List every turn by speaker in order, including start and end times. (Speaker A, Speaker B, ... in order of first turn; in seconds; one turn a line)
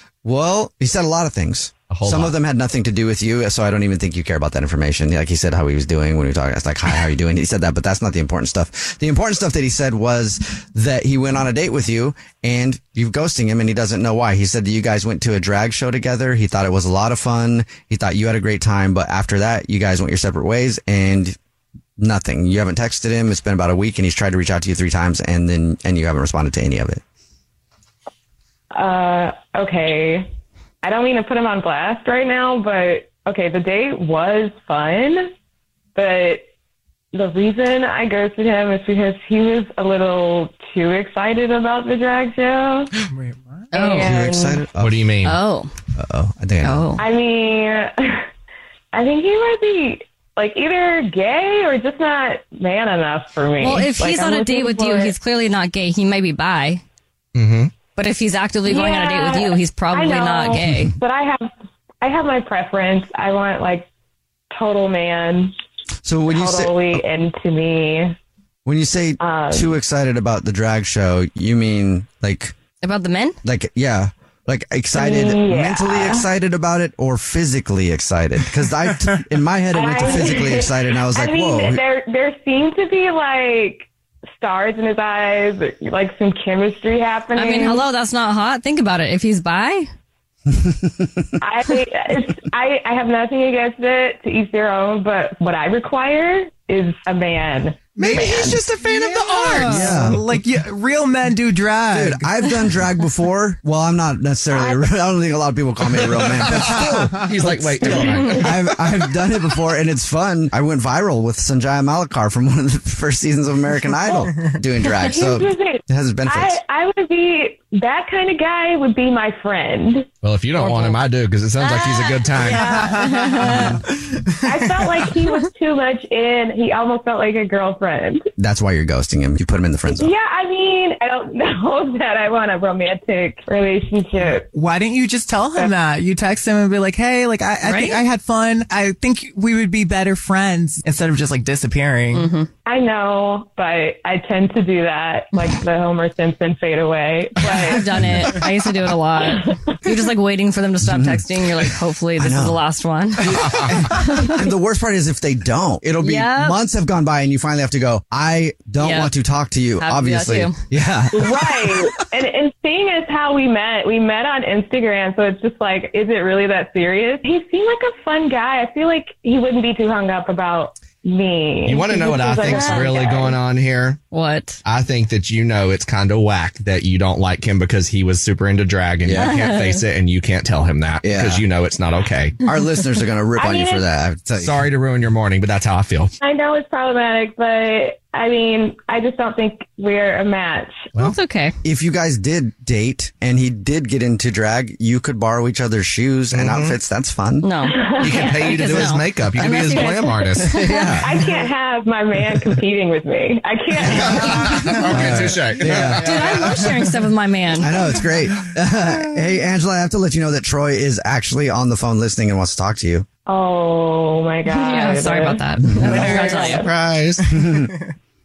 Speaker A: 0.2-21.3
Speaker B: 1.9-2.4
Speaker A: 22.0-27.0
Speaker C: 28.7-30.3
Speaker C: 30.8-35.3
Speaker C: 35.9-36.5
Speaker C: 37.1-42.9
Speaker D: 43.2-43.6
Speaker E: 43.7-44.1
Speaker C: 43.7-44.6
Speaker A: 44.0-45.0
Speaker B: 44.8-45.4
Speaker E: 45.2-45.7
Speaker A: 45.9-46.8
Speaker E: 46.6-47.0
Speaker C: 47.0-48.2
Speaker C: 48.9-55.1
Speaker E: 53.6-56.8
Speaker B: 57.3-57.7
Speaker E: 57.9-60.9
Speaker C: 58.6-61.5
Speaker C: 62.0-63.9
Speaker C: 64.5-65.5
Speaker A: 66.0-67.0
Speaker C: 66.3-68.1
Speaker A: 68.6-72.5
Speaker C: 69.2-69.7
Speaker E: 72.8-73.4
Speaker A: 73.4-81.8
Speaker C: 74.9-76.2
Speaker C: 79.7-87.8
Speaker E: 87.3-89.8
Speaker A: 90.6-91.2
Speaker C: 91.4-97.8
Speaker D: 98.0-102.3
Speaker A: 98.0-98.5
Speaker B: 99.2-99.7
Speaker A: 99.5-100.3
Speaker A: 101.9-116.6
Speaker B: 106.0-108.8
Speaker C: 115.0-120.1
Speaker B: 120.2-122.9
Speaker D: 122.4-123.2
Speaker E: 123.0-123.6
Speaker C: 124.4-128.3
Speaker A: 128.4-130.1
Speaker C: 129.9-134.5
Speaker D: 134.5-142.2
Speaker E: 137.6-138.0
Speaker E: 142.1-142.5
Speaker C: 142.7-147.8
Speaker E: 147.5-154.4
Speaker A: 150.8-151.2
Speaker A: 152.2-152.6
Speaker A: 153.2-161.3
Speaker E: 156.0-156.6
Speaker E: 158.8-159.1
Speaker E: 159.8-160.6
Speaker C: 161.1-173.4
Speaker B: 171.6-174.0
Speaker E: 174.1-174.6
Speaker B: 174.7-182.4
Speaker A: 179.0-179.3
Speaker E: 179.2-179.8
Speaker A: 181.0-181.4
Speaker A: 182.4-184.6
Speaker C: 183.4-183.8
Speaker B: 184.4-186.1
Speaker C: 186.2-190.9
Speaker E: 191.0-191.6
Speaker A: 191.6-197.5
Speaker B: 196.3-196.8
Speaker E: 197.4-200.9
Speaker C: 197.7-198.9
Speaker B: 197.8-200.5
Speaker A: 200.5-201.2
Speaker C: 201.0-204.8
Speaker B: 203.9-206.8
Speaker A: 204.8-206.1
Speaker E: 206.0-207.7
Speaker A: 207.6-213.1
Speaker C: 213.2-216.7
Speaker E: 214.5-216.6
Speaker B: 216.6-217.3
Speaker A: 217.3-217.7